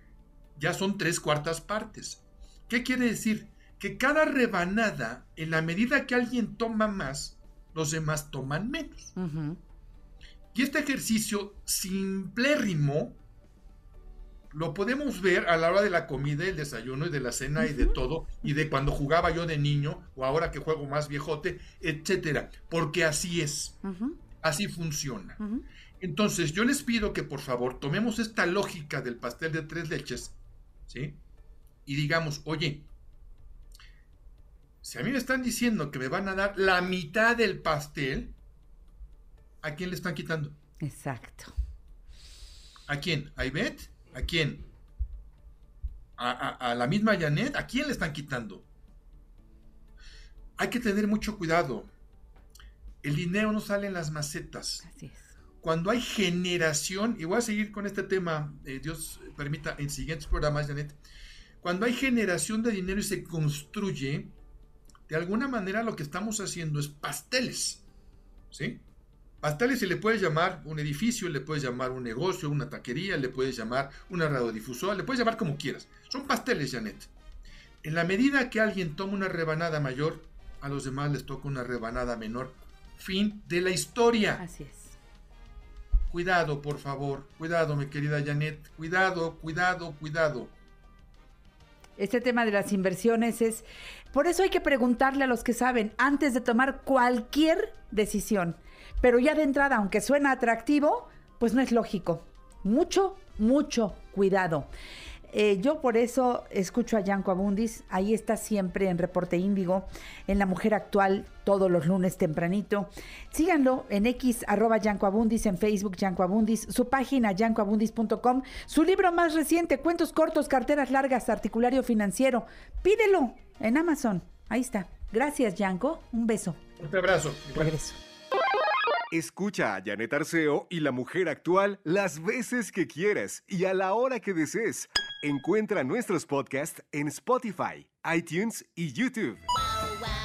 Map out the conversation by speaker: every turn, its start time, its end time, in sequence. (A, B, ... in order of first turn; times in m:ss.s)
0:00.6-0:09.1 A
0:09.2-0:09.6 B
0:10.5-0:13.2 A
0:14.5-0:23.8 A
0:17.6-0:18.0 B
0:23.8-0:24.2 B
0:24.4-0:25.4 A
0:25.4-0:25.6 B
0:26.0-0:30.4 A
0:30.9-0:31.2 A
0:31.8-0:32.9 A
0:34.8-0:38.3 A
0:39.6-0:40.6 A
0:40.8-0:41.5 B
0:42.9-0:44.6 A
0:46.2-0:48.6 A
0:50.6-0:51.9 A
0:53.0-0:54.8 A
0:54.8-0:55.3 B
0:55.6-1:01.0 A
1:01.6-1:04.3 A
1:05.1-1:07.8 A
1:08.5-1:08.8 A
1:09.4-1:17.1 A
1:17.8-1:24.4 A
1:24.4-1:25.0 B
1:26.1-1:30.5 A
1:32.0-1:44.7 B
1:45.3-2:06.6 B
2:06.8-2:07.7 A
2:07.5-2:08.0 B
2:09.1-2:19.4 C